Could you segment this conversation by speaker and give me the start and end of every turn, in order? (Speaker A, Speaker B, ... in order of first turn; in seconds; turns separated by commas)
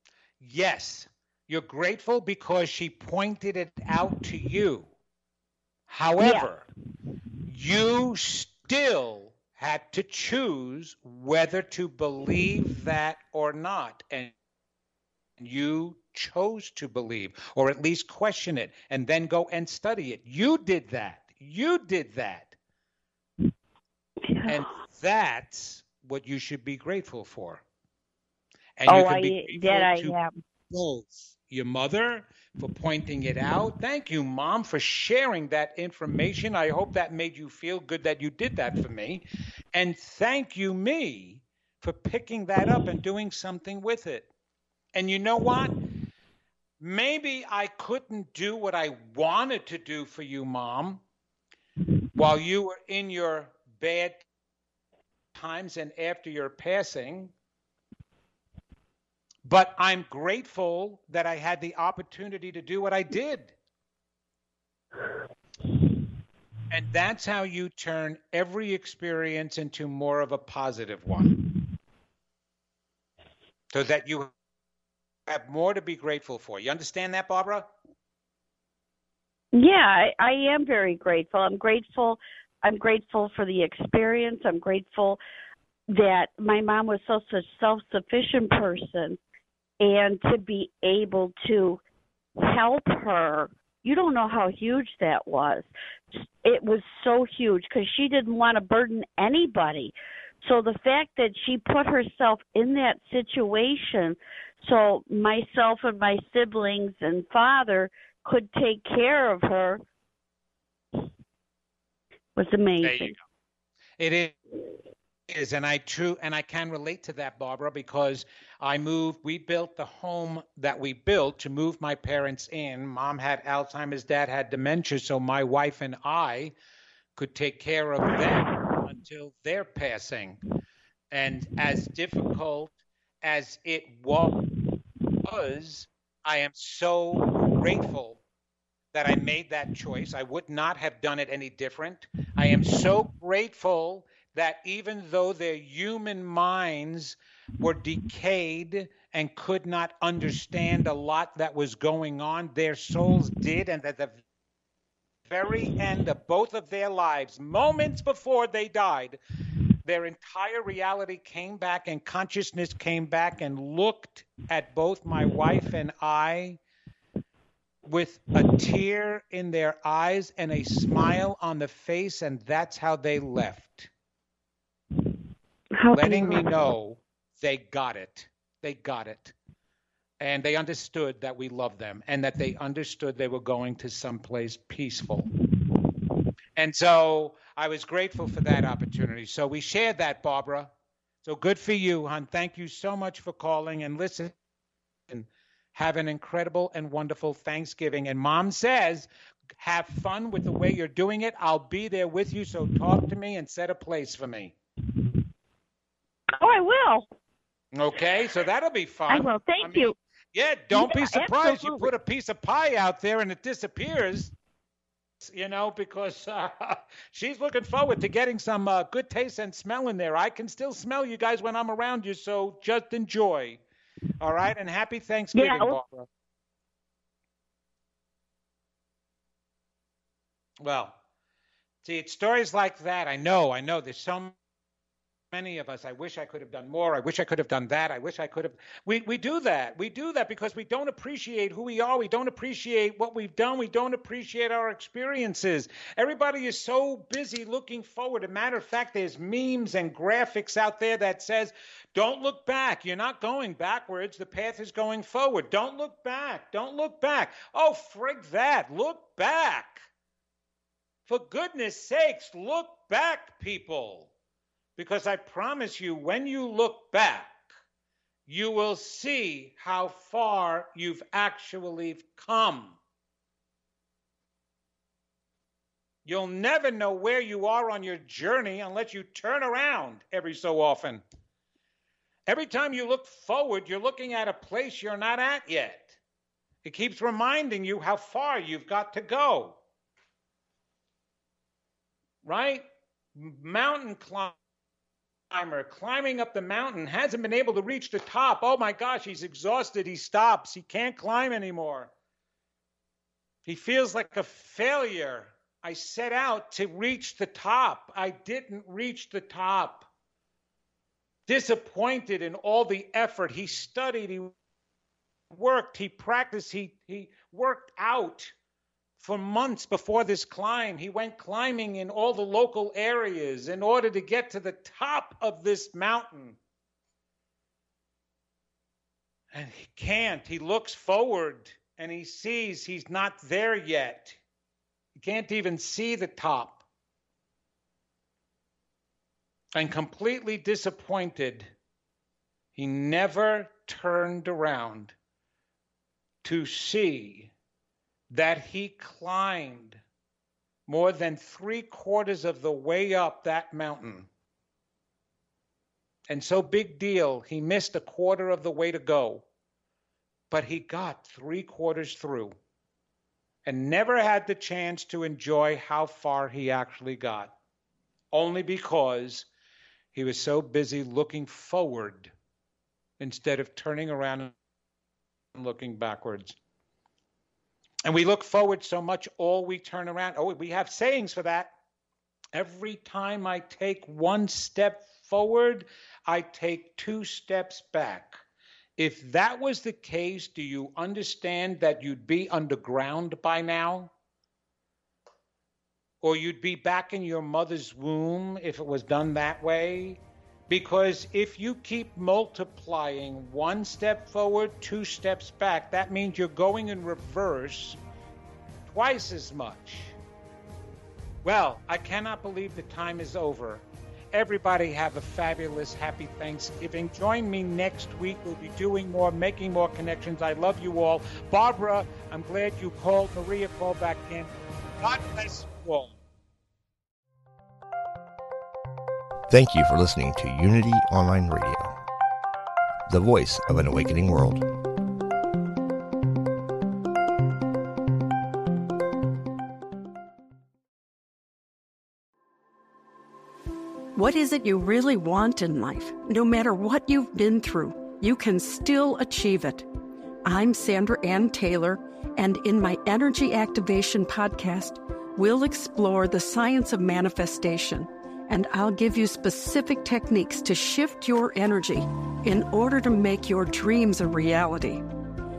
Speaker A: 0.4-4.9, Speaker A: 5.9-6.7, Speaker B: 6.2-6.5, Speaker A: 7.5-14.3, Speaker A: 15.4-22.6, Speaker B: 24.3-24.7, Speaker A: 24.5-27.6, Speaker A: 28.8-30.1, Speaker B: 28.9-30.3, Speaker A: 30.7-44.3, Speaker A: 44.9-45.8, Speaker A: 46.8-51.0, Speaker A: 52.1-54.2, Speaker A: 55.3-57.3, Speaker A: 59.5-63.5, Speaker A: 66.7-71.3, Speaker A: 73.7-74.3, Speaker A: 75.3-77.7, Speaker B: 79.5-85.2, Speaker B: 85.9-89.2, Speaker B: 89.8-91.8, Speaker B: 92.4-95.7, Speaker B: 96.4-109.8, Speaker B: 112.3-113.2, Speaker A: 112.8-113.2, Speaker A: 114.0-114.3, Speaker A: 115.3-126.5, Speaker A: 127.2-130.4, Speaker A: 131.1-134.3, Speaker A: 135.2-138.2, Speaker A: 138.9-154.2, Speaker A: 155.3-159.2, Speaker A: 159.8-166.6, Speaker A: 167.8-173.9, Speaker B: 175.8-176.6, Speaker A: 175.9-179.3, Speaker A: 180.2-185.3, Speaker A: 186.6-190.7, Speaker A: 191.2-194.3, Speaker A: 195.1-199.1, Speaker A: 199.6-204.5, Speaker B: 206.3-207.1, Speaker A: 207.7-214.3, Speaker B: 209.1-209.9, Speaker B: 210.7-211.9, Speaker A: 215.2-223.6, Speaker A: 224.2-226.1, Speaker B: 225.3-225.8, Speaker A: 230.6-230.9, Speaker A: 231.8-234.3, Speaker A: 235.3-259.8, Speaker A: 261.1-264.1, Speaker A: 264.8-267.4, Speaker A: 268.3-272.8, Speaker A: 276.0-281.0, Speaker A: 282.3-286.0, Speaker A: 286.6-289.6, Speaker A: 292.2-294.3, Speaker A: 295.3-301.9, Speaker A: 303.4-309.9, Speaker A: 311.3-314.3, Speaker A: 315.3-318.3, Speaker A: 319.0-326.4, Speaker A: 329.3-334.2, Speaker A: 334.9-336.6, Speaker A: 339.5-341.5, Speaker A: 342.6-344.9, Speaker A: 346.2-347.3, Speaker A: 348.1-349.8, Speaker A: 350.7-354.1, Speaker A: 356.1-359.2, Speaker A: 360.3-362.3, Speaker A: 363.4-367.3, Speaker A: 368.1-369.3, Speaker A: 369.9-372.1, Speaker A: 373.0-374.3, Speaker A: 375.4-376.4, Speaker A: 377.9-381.5, Speaker A: 382.3-388.2, Speaker A: 388.8-393.9, Speaker A: 396.0-407.8, Speaker A: 408.6-409.9, Speaker A: 411.2-425.9, Speaker C: 429.3-431.7, Speaker C: 432.9-434.4, Speaker D: 443.9-449.7, Speaker D: 450.2-464.8